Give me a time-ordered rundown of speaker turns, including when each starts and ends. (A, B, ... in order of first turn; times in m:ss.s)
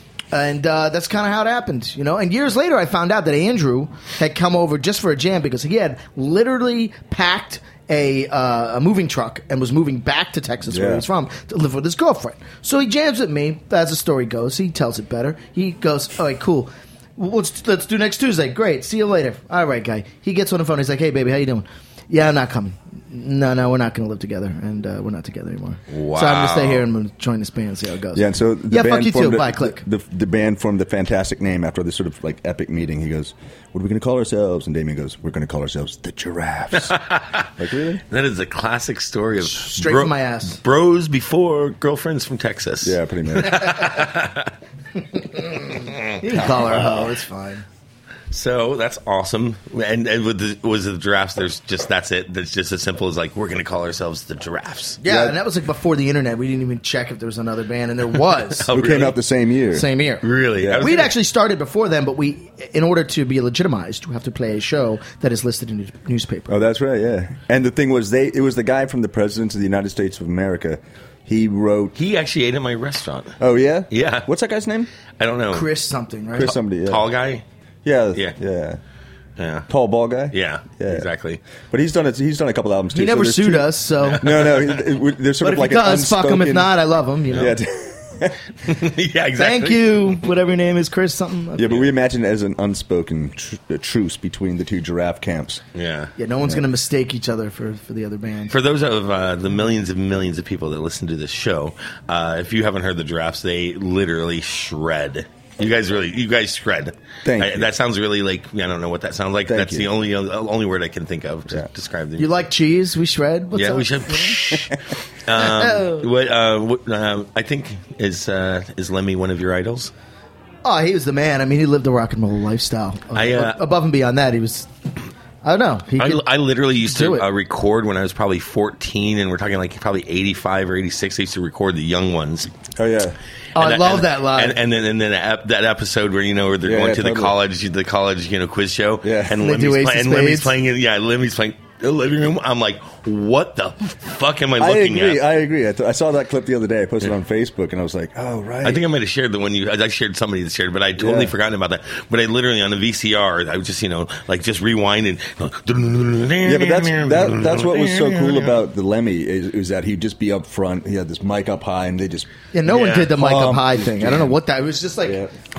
0:00.3-0:29.8 A
0:10.7-0:11.0 B
0:25.9-0:26.8 C
0:28.1-0:37.0 B
0:36.8-0:37.4 C
0:37.6-0:38.0 B
0:38.1-0:44.5 C
0:39.4-0:40.6 A
0:42.8-0:43.8 B
0:45.2-0:47.6 A
0:45.4-0:47.1 C
0:48.3-0:55.0 C
0:55.0-0:58.7 A
0:55.0-0:55.4 B
0:58.6-0:59.2 C
0:58.7-0:59.9 B
0:59.7-1:00.3 A
1:00.2-1:01.1 C
1:00.6-1:00.9 B
1:00.8-1:06.6 A
1:06.5-1:12.0 B
1:12.0-1:13.4 C
1:13.4-1:14.9 B
1:13.9-1:14.3 C
1:15.2-1:15.7 C
1:15.5-1:16.6 A
1:16.3-1:17.1 B
1:16.4-1:17.4 C
1:17.8-1:18.8 B
1:19.4-1:19.7 C
1:19.7-1:21.1 B
1:20.3-1:21.4 C
1:21.7-1:26.8 B
1:22.9-1:24.5 A
1:24.0-1:24.8 C
1:25.4-1:27.6 A
1:27.3-1:28.4 B
1:28.6-1:30.2 C
1:29.4-1:31.8 A
1:31.6-1:35.6 B
1:35.8-1:36.1 C
1:36.2-1:38.5 A
1:38.5-1:52.5 C
1:47.2-1:47.7 B
1:49.5-1:49.9 B
1:52.2-1:54.5 A
1:53.6-1:59.9 C
1:55.3-1:56.1 A
2:00.6-2:04.7 A
2:03.2-2:03.6 C
2:05.4-2:06.2 A
2:06.0-2:12.5 C
2:06.8-2:07.2 A
2:12.8-2:13.2 B
2:13.6-2:14.6 A
2:13.6-2:25.2 C
2:16.6-2:17.4 B
2:19.0-2:19.4 B
2:19.4-2:20.5 A
2:24.6-2:28.8 B
2:28.6-2:38.6 C
2:31.0-2:31.3 B
2:36.4-2:42.3 B
2:42.5-2:45.2 A
2:42.7-2:43.2 C
2:43.1-2:44.3 B
2:45.0-2:45.3 B